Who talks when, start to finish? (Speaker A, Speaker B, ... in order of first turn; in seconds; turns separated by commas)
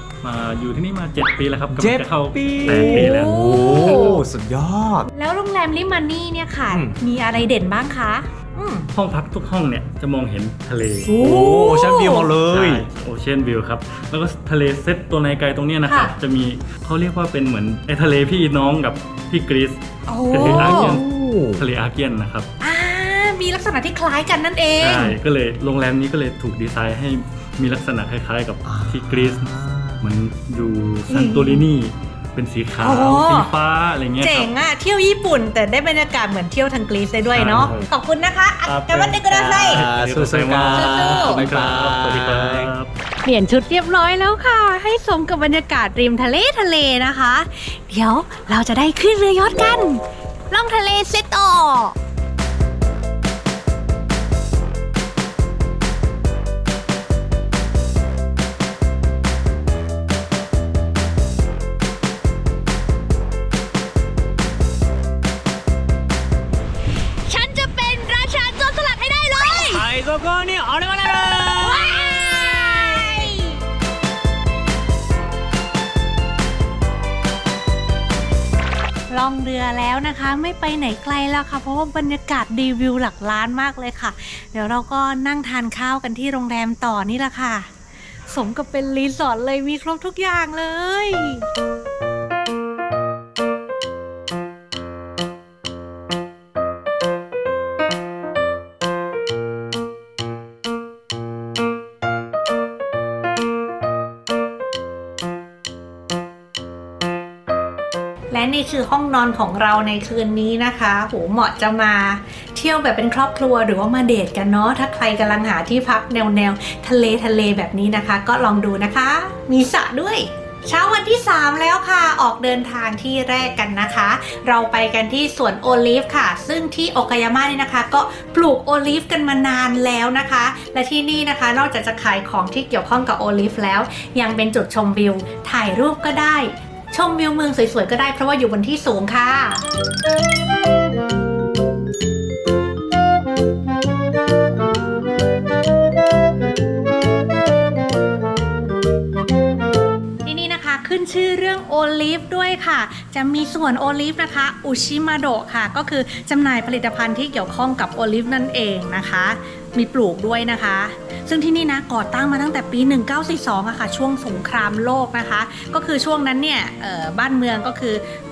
Speaker A: 0.2-4.2, Speaker B: 1.7-5.1, Speaker C: 2.7-4.2, Speaker C: 5.1-8.9, Speaker B: 6.7-7.0, Speaker A: 8.9-11.1, Speaker B: 11.1-12.9, Speaker C: 11.2-12.3, Speaker A: 12.3-22.5, Speaker C: 15.9-16.1, Speaker C: 20.1-21.0, Speaker B: 20.4-21.6, Speaker C: 22.6-25.1, Speaker A: 24.8-34.5, Speaker B: 28.7-30.1, Speaker C: 31.1-31.6, Speaker C: 32.8-33.5, Speaker C: 34.2-39.8, Speaker A: 37.3-37.9, Speaker A: 38.6-42.9, Speaker B: 39.2-42.7, Speaker C: 40.7-41.4, Speaker C: 43.2-52.0, Speaker C: 67.2-69.9, Speaker B: 69.5-73.3, Speaker C: 71.6-73.6, Speaker C: 79.1-87.7, Speaker C: 88.3-91.5, Speaker C: 108.3-139.6, Speaker C: 150.2-168.0